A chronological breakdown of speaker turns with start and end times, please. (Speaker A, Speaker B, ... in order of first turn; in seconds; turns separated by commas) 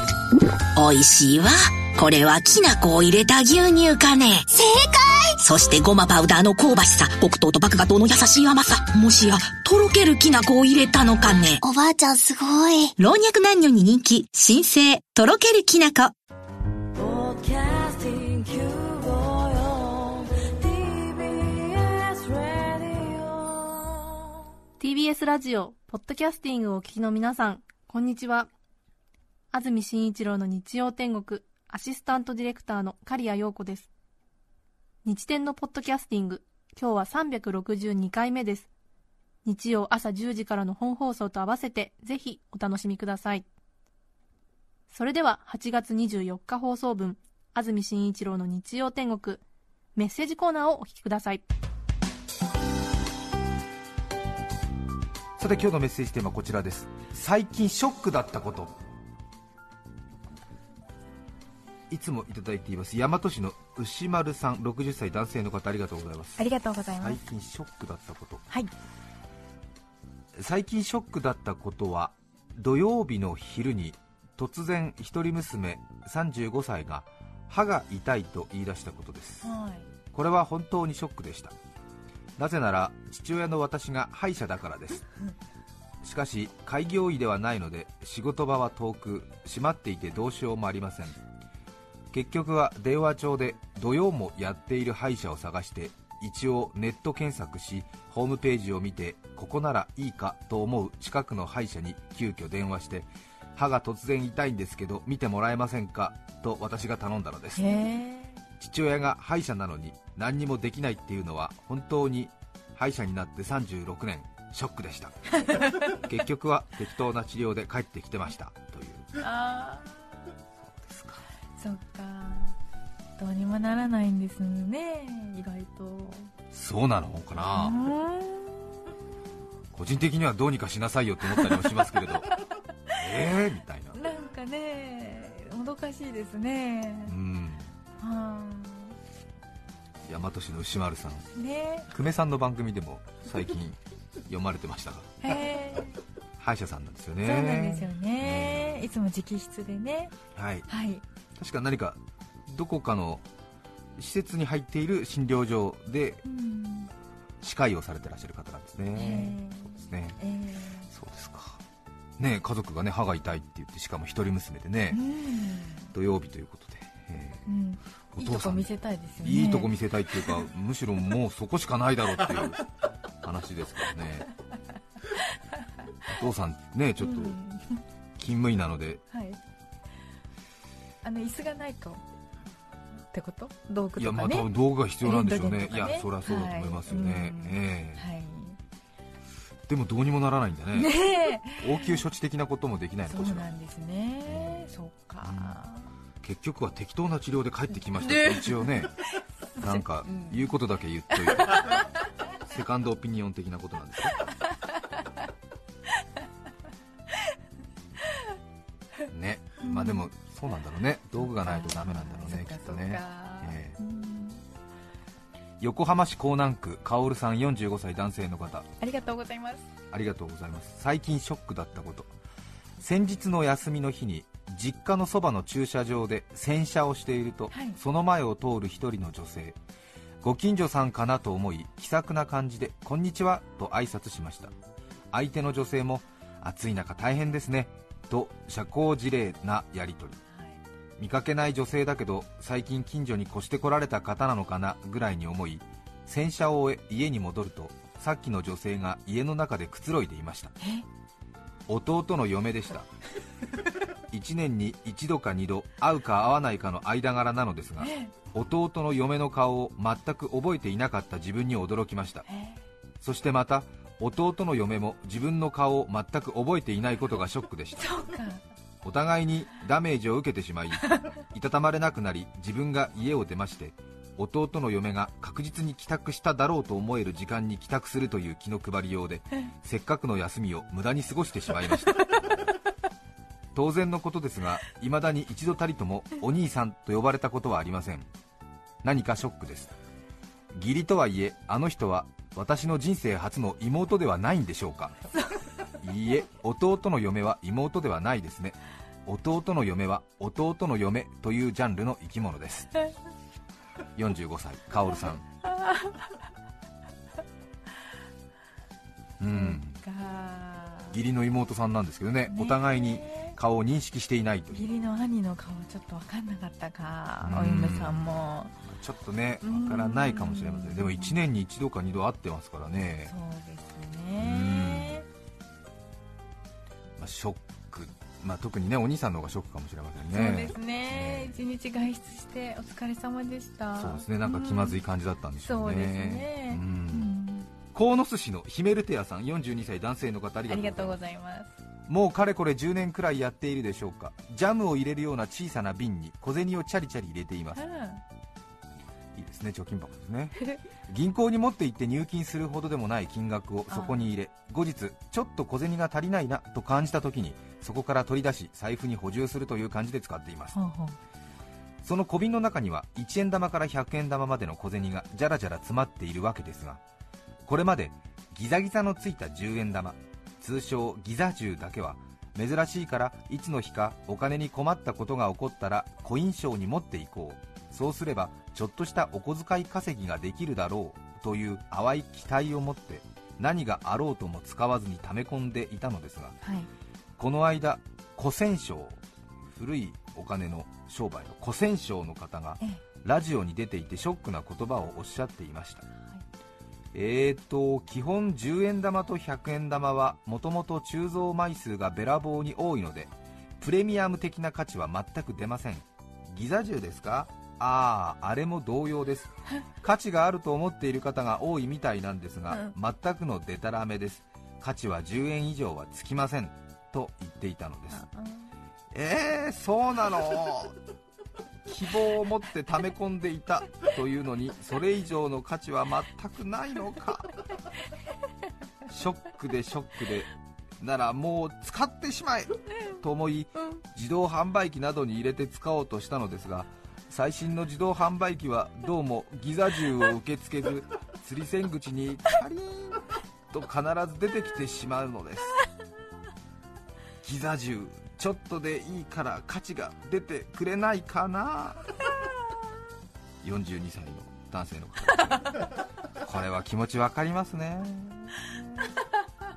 Speaker A: 0.8-4.5, Speaker B: 4.5-5.4, Speaker A: 5.4-11.6, Speaker B: 11.6-12.9, Speaker A: 13.0-16.1, Speaker B: 17.0-17.7, Speaker B: 18.6-19.8, Speaker B: 20.4-23.9, Speaker C: 24.8-28.5, Speaker C: 29.5-33.9, Speaker C: 35.0-38.7, Speaker C: 39.5-43.5, Speaker C: 44.9-49.4, Speaker C: 50.0-51.4, Speaker D: 55.4-58.7, Speaker D: 61.9-68.5, Speaker E: 66.4-67.2, Speaker D: 70.4-79.5, Speaker E: 79.4-79.9, Speaker D: 80.1-81.5, Speaker D: 82.4-85.1, Speaker D: 86.0-91.2, Speaker D: 92.1-107.7, Speaker E: 107.6-108.4, Speaker D: 108.6-119.2, Speaker E: 115.3-116.0, Speaker E: 119.2-120.3, Speaker D: 120.7-121.2, Speaker E: 121.6-122.6, Speaker E: 123.2-126.3, Speaker D: 126.5-127.8, Speaker E: 127.3-128.8, Speaker D: 129.7-132.3, Speaker E: 131.3-133.3, Speaker D: 132.9-134.0, Speaker E: 133.9-137.2, Speaker D: 137.1-137.7, Speaker E: 138.0-139.0, Speaker D: 140.1-141.3, Speaker E: 141.3-141.9, Speaker D: 141.9-143.8, Speaker D: 144.3-145.1, Speaker E: 145.2-146.0, Speaker D: 146.4-148.8, Speaker E: 147.2-150.2, Speaker D: 150.3-150.7, Speaker E: 150.7-151.1, Speaker D: 151.4-153.2, Speaker D: 154.0-156.2, Speaker E: 156.2-156.9, Speaker D: 157.4-160.2, Speaker E: 158.9-160.9, Speaker D: 160.9-161.6, Speaker D: 162.2-165.0, Speaker E: 164.9-165.9, Speaker D: 165.9-167.4, Speaker E: 167.5-170.5, Speaker D: 168.2-168.7, Speaker D: 169.2-172.6, Speaker D: 173.2-174.3, Speaker E: 175.1-175.6, Speaker D: 176.1-177.4, Speaker E: 177.0-177.8, Speaker D: 178.2-179.0, Speaker E: 179.1-179.4, Speaker E: 181.0-182.0, Speaker E: 183.1-184.5, Speaker D: 184.0-188.1, Speaker E: 185.0-188.6, Speaker D: 189.7-191.0, Speaker E: 190.7-192.0, Speaker D: 191.5-193.5, Speaker E: 193.1-195.9, Speaker D: 194.3-194.7, Speaker D: 195.2-195.6, Speaker D: 196.2-198.9, Speaker E: 197.9-200.5, Speaker D: 199.6-201.8, Speaker E: 201.2-202.1, Speaker D: 202.5-204.2, Speaker D: 209.1-213.8, Speaker E: 209.6-210.1, Speaker E: 211.2-214.4, Speaker D: 215.6-218.7, Speaker E: 218.8-219.7, Speaker D: 219.9-222.1, Speaker D: 222.8-229.6, Speaker E: 227.5-227.8, Speaker D: 230.2-234.5, Speaker D: 235.1-240.2, Speaker E: 240.3-240.6, Speaker D: 241.0-250.6, Speaker D: 251.7-252.9, Speaker D: 254.1-262.3, Speaker E: 257.8-258.2, Speaker E: 262.3-262.6, Speaker D: 263.0-268.0, Speaker E: 267.8-268.4, Speaker D: 268.8-282.1, Speaker E: 270.8-271.2, Speaker D: 283.6-288.1, Speaker D: 288.8-289.7, Speaker D: 290.5-295.0, Speaker E: 295.1-295.7, Speaker D: 295.8-302.7, Speaker D: 304.0-305.2, Speaker E: 305.4-306.1, Speaker D: 309.2-309.8, Speaker E: 309.3-311.0, Speaker D: 310.9-314.7, Speaker E: 312.3-313.4, Speaker E: 314.5-318.6, Speaker D: 317.2-323.1, Speaker E: 319.4-321.2, Speaker E: 323.0-325.1, Speaker D: 324.2-325.0, Speaker D: 327.0-331.4, Speaker E: 330.1-334.8, Speaker D: 333.8-337.1, Speaker E: 335.4-337.5, Speaker D: 337.7-341.0, Speaker E: 340.5-341.6, Speaker D: 341.9-347.6, Speaker E: 347.5-348.0, Speaker D: 349.2-360.6, Speaker E: 353.7-354.1, Speaker E: 360.5-361.0, Speaker D: 361.8-366.8, Speaker D: 367.5-386.4, Speaker E: 386.4-386.7, Speaker D: 387.2-389.0, Speaker D: 389.5-395.9, Speaker D: 396.9-418.0, Speaker E: 412.5-412.8, Speaker E: 417.9-418.5, Speaker D: 418.9-420.8, Speaker D: 421.7-427.3, Speaker D: 428.9-445.6, Speaker D: 447.2-451.9, Speaker D: 453.4-455.6, Speaker D: 456.2-458.4, Speaker E: 458.4-459.1